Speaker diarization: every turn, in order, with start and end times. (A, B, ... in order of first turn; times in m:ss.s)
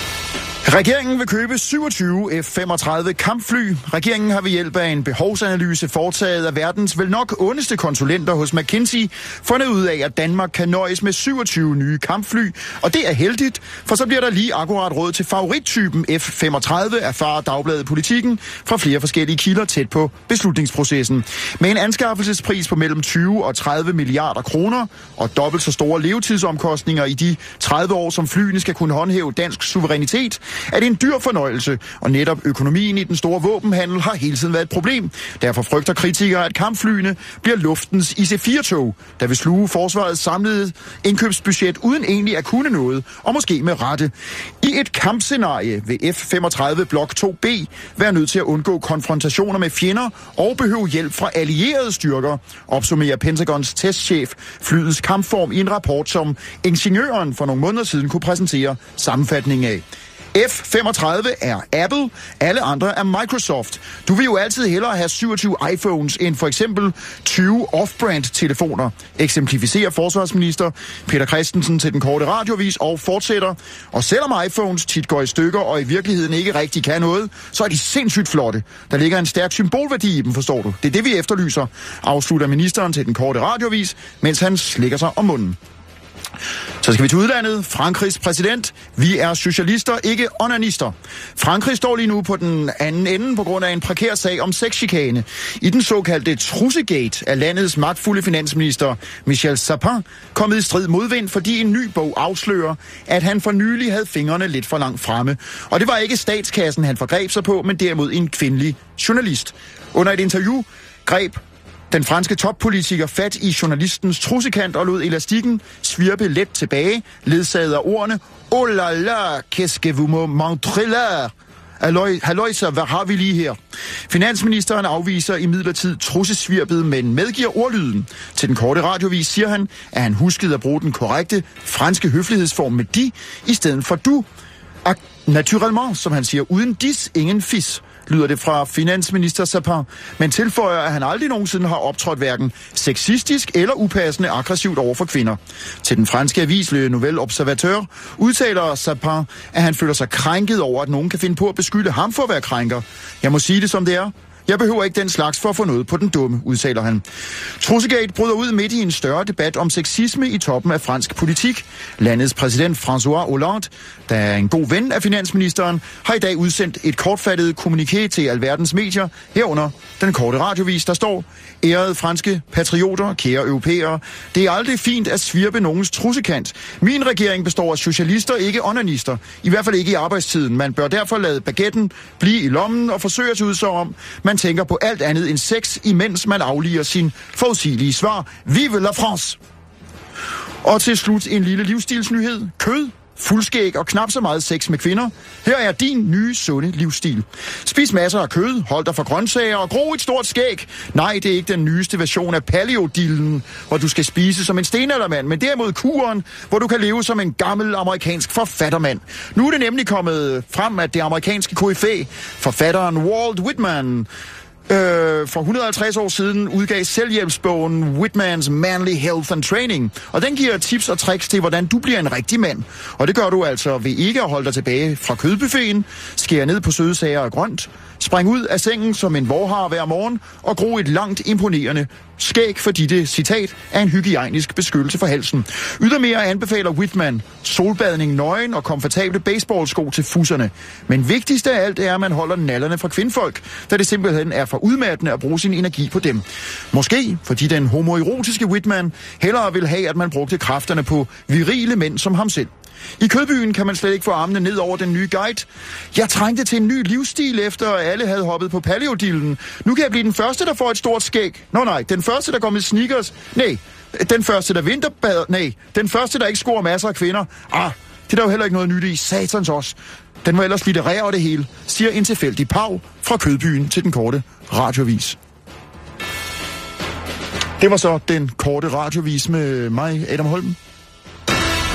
0:00.6-1:25.6 A
1:26.8-2:14.3 A
2:14.8-3:09.4 A
3:10.6-3:34.1 A
3:34.7-4:35.2 A
4:37.6-4:40.6 A